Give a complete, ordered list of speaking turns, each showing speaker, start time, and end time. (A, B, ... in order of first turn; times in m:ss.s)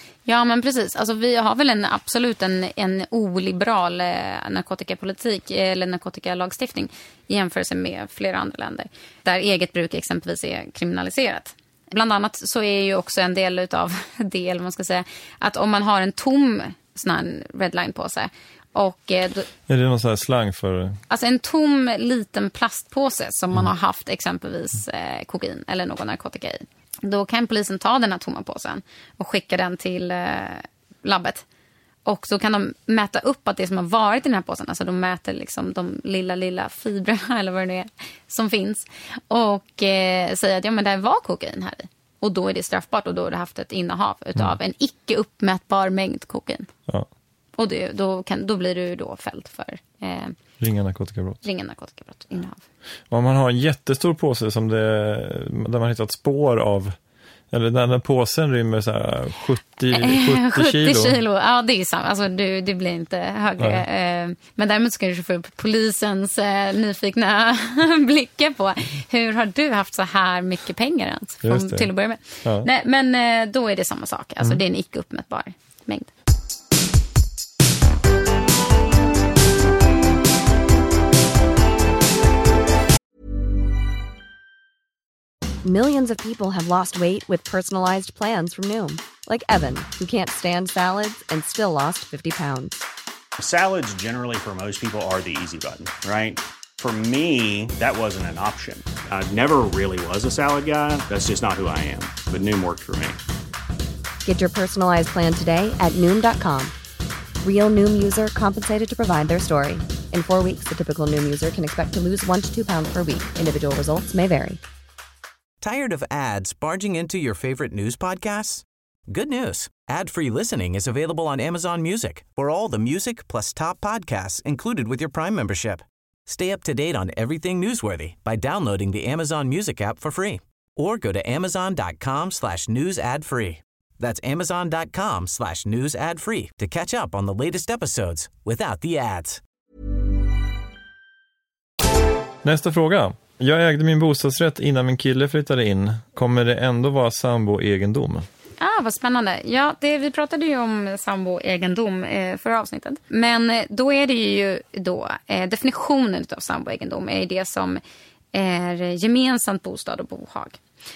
0:00.3-0:19.5 A
0:19.7-0:21.0 B
0:21.1-0:31.4 A
0:32.1-0:46.7 A
0:47.6-0:50.4 A
0:50.6-0:51.4 B
0:51.4-0:52.6 A
0:53.1-0:57.0 B
0:57.5-1:01.2 B
0:59.9-1:16.1 A
1:03.6-1:03.8 B
1:11.4-1:11.9 B
1:12.4-1:12.7 B
1:25.6-1:32.8 C
1:33.4-1:43.2 D
1:44.2-1:46.7 C
1:47.4-1:54.6 C
1:55.6-2:19.4 E
2:22.4-2:28.3 B
2:28.6-2:37.8 A
2:38.3-2:40.6 A